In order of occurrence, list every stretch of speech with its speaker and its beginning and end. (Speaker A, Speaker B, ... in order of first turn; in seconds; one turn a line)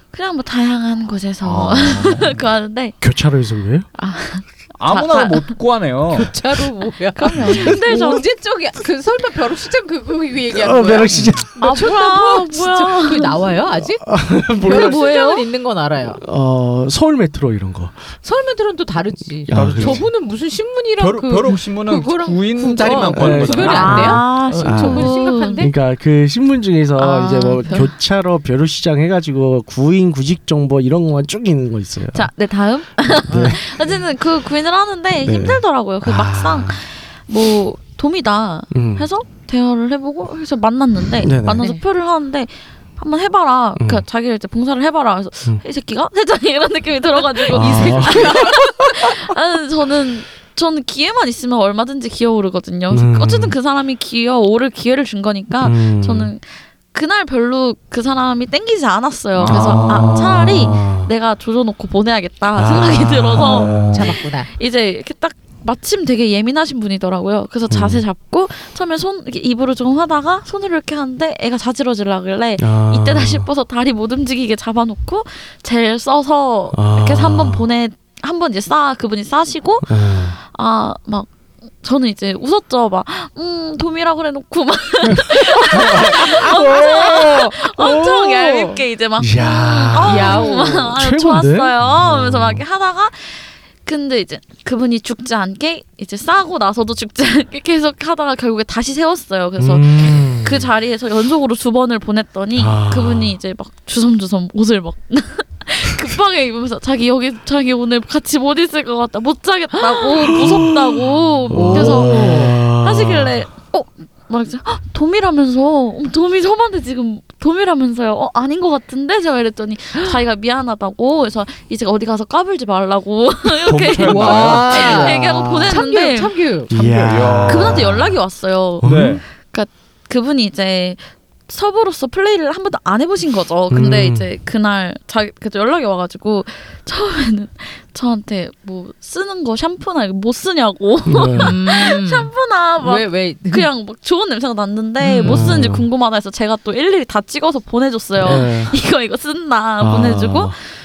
Speaker A: 0.1-3.0
Speaker B: 1.4-2.4
Speaker C: 1.5-2.3
Speaker C: 3.0-3.9
Speaker A: 4.0-5.5
Speaker B: 4.8-6.3
Speaker D: 6.1-16.2
Speaker A: 7.2-8.2
Speaker C: 10.5-11.5
Speaker B: 11.1-11.4
Speaker A: 11.6-13.6
Speaker C: 14.0-15.0
Speaker A: 14.6-15.5
Speaker C: 16.1-18.0
Speaker D: 18.2-25.7
Speaker C: 19.5-20.0
Speaker B: 19.5-20.1
Speaker B: 21.0-24.2
Speaker C: 23.1-32.3
Speaker A: 23.5-25.7
Speaker A: 27.0-27.9
Speaker A: 32.1-81.3
Speaker C: 33.1-33.6
Speaker D: 33.3-33.6
Speaker C: 35.2-36.8
Speaker C: 38.7-39.1
Speaker C: 41.2-41.7
Speaker C: 43.8-44.0
Speaker C: 47.5-48.5
Speaker D: 47.5-48.5
Speaker C: 52.9-53.6
Speaker C: 55.6-56.3
Speaker B: 59.4-60.4
Speaker C: 59.5-61.1
Speaker C: 62.6-64.2
Speaker B: 63.5-64.0
Speaker D: 63.9-64.5
Speaker C: 67.7-68.0
Speaker C: 72.6-73.5
Speaker C: 76.7-77.7
Speaker C: 79.8-80.4
Speaker A: 81.8-126.4
Speaker C: 85.1-92.6
Speaker D: 90.0-90.9
Speaker C: 99.6-100.7
Speaker C: 102.6-103.4
Speaker C: 110.2-113.5
Speaker D: 111.6-112.5
Speaker B: 123.7-125.1
Speaker D: 124.0-126.7
Speaker C: 125.3-125.7
Speaker C: 126.7-128.2
Speaker B: 126.7-128.0
Speaker A: 127.5-150.7
Speaker C: 128.8-129.2
Speaker B: 128.8-129.2
Speaker C: 133.7-134.3
Speaker C: 141.1-141.6
Speaker D: 141.3-143.7
Speaker D: 145.0-145.6
Speaker C: 145.2-145.9
Speaker C: 148.2-148.8
Speaker C: 149.8-150.6